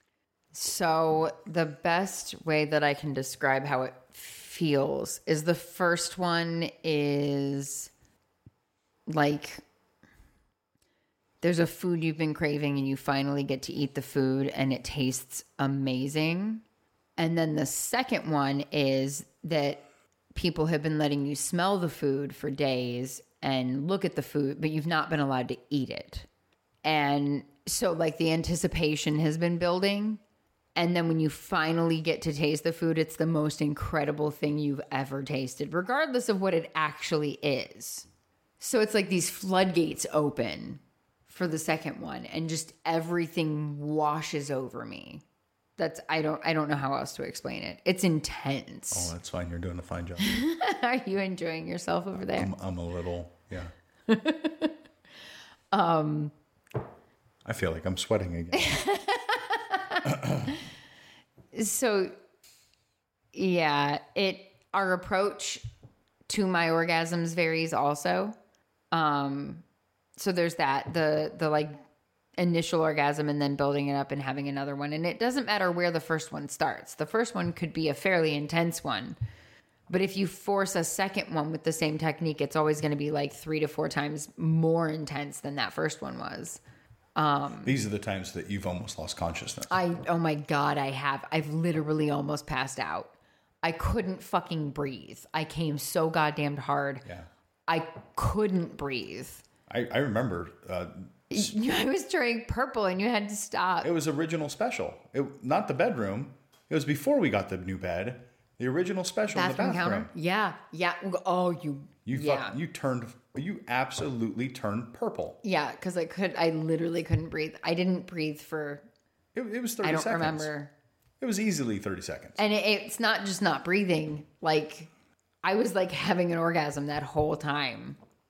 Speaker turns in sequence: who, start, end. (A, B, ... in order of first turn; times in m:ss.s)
0:00.5-0:07.9 A
0:09.1-0:09.6 A
0:11.4-0:16.6 A
0:17.2-0:19.8 A
0:20.3-0:26.3 A
0:26.8-0:30.2 A
0:30.8-0:38.1 A
0:38.6-0:45.2 A
0:45.8-0:49.1 A
0:48.9-0:50.4 B
0:50.2-0:52.5 A
0:52.3-0:53.7 B
0:54.1-0:54.8 A
0:55.7-0:56.3 A
0:57.4-0:58.7 B
0:58.5-1:00.6 A
1:00.0-1:00.6 B
1:01.5-1:02.1 A
1:03.3-1:05.6 A
1:06.3-1:08.4 A
1:08.9-1:09.6 A
1:10.2-1:11.8 A
1:12.4-1:19.2 A
1:19.9-1:26.6 A
1:27.2-1:27.8 A
1:27.6-1:29.8 B
1:29.7-1:37.0 A
1:37.7-1:39.4 A
1:39.7-1:41.5 B
1:41.3-1:43.9 A
1:43.8-1:50.1 B
1:49.3-1:52.6 A
1:52.0-1:55.4 B
1:55.4-1:58.9 A
1:59.3-2:00.5 B
1:59.8-2:00.7 A
2:01.2-2:02.4 B
2:02.4-2:04.9 A
2:05.4-2:08.0 A